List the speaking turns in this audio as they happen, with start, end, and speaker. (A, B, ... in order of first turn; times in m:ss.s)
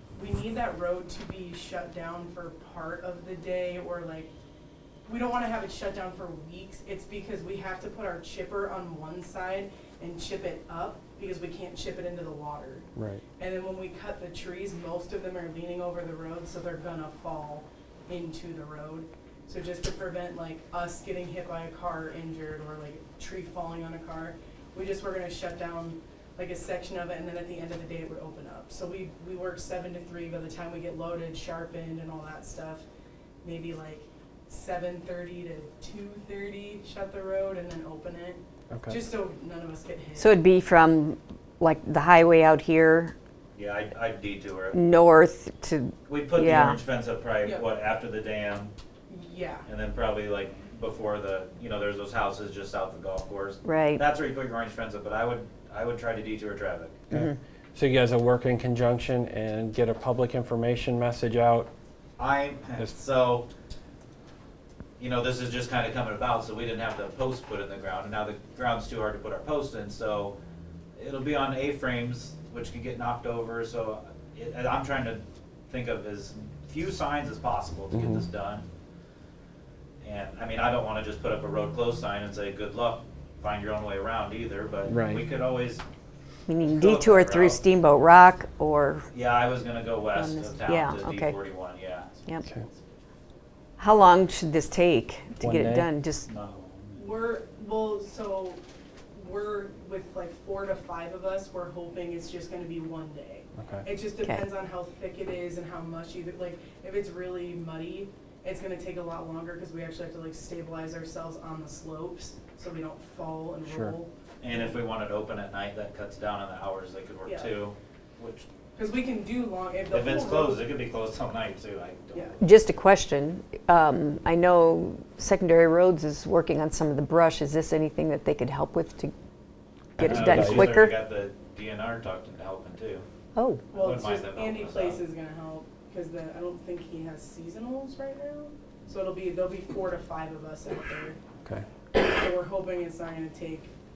0:00.2-0:04.3 A
0:05.0-0:12.8 A
0:13.0-0:13.2 B
0:13.4-0:32.8 A
0:33.4-0:40.4 A
0:38.7-0:39.0 B
0:40.2-0:43.1 C
0:43.5-0:45.0 D
0:44.7-0:46.8 C
0:46.1-0:48.7 D
0:49.1-0:49.7 A
0:49.6-0:57.0 D
0:53.6-0:54.0 C
0:57.1-1:01.7 B
1:02.2-1:03.5 D
1:05.0-1:10.4 D
1:11.0-1:18.6 D
1:17.9-1:18.2 B
1:20.0-1:25.8 D
1:24.9-1:25.2 B
1:26.5-1:29.1 C
1:26.6-1:27.7 D
1:29.1-1:32.2 D
1:30.1-1:31.4 C
1:33.8-1:36.3 C
1:35.4-1:35.9 B
1:36.2-1:37.1 D
1:37.0-1:38.6 A
1:39.1-1:54.8 A
1:43.6-1:43.8 B
1:53.6-1:53.9 B
1:54.4-1:58.5 D
1:57.2-1:57.5 A
1:58.7-2:00.6 A
1:59.9-2:02.5 D
2:02.4-2:09.1 C
2:10.0-2:11.0 C
2:10.0-2:10.6 B
2:10.0-2:13.0 D
2:13.4-2:13.6 C
2:13.7-2:21.2 A
2:13.7-2:15.0 D
2:21.9-2:23.7 A